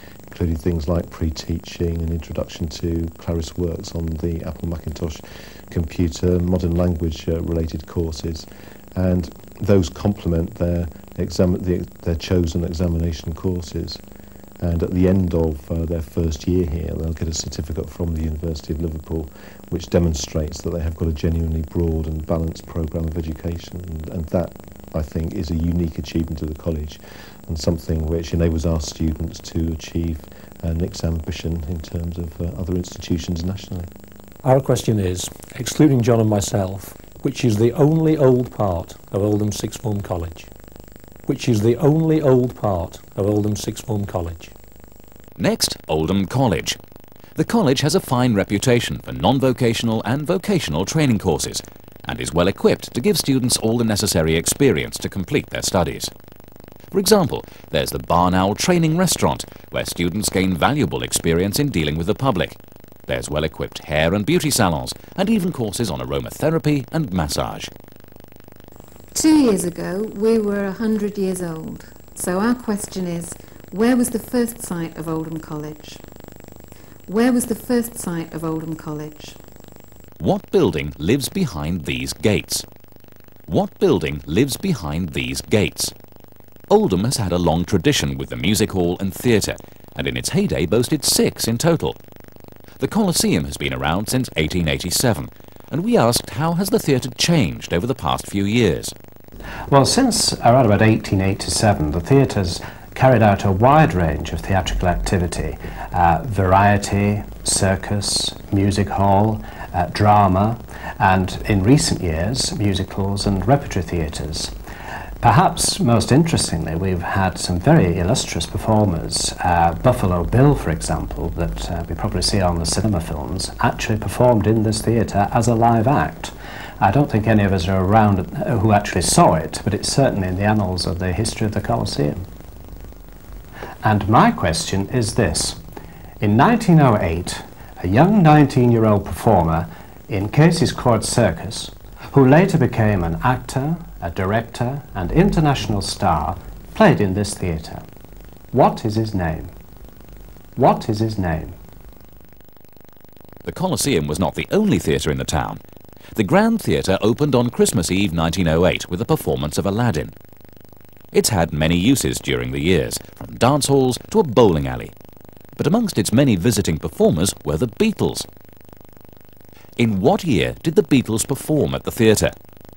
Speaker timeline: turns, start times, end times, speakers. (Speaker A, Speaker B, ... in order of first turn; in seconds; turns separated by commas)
Speaker A: 0.3-14.0, Speaker A: 14.6-33.9, Speaker B: 34.4-40.5, Speaker B: 41.3-44.5, Speaker C: 45.4-46.8, Speaker C: 47.4-56.1, Speaker C: 56.9-62.6, Speaker C: 63.1-67.7, Speaker D: 69.1-76.0, Speaker D: 77.1-79.4, Speaker C: 80.2-82.7, Speaker C: 83.5-85.9, Speaker C: 86.7-92.0, Speaker C: 92.8-98.9, Speaker E: 99.7-114.5, Speaker E: 115.2-132.2, Speaker E: 133.8-135.6, Speaker E: 136.2-147.8, Speaker E: 148.5-149.5, Speaker E: 150.6-151.6, Speaker C: 153.4-155.6, Speaker C: 156.2-160.1, Speaker C: 161.1-164.9, Speaker C: 165.6-168.3, Speaker C: 169.8-172.3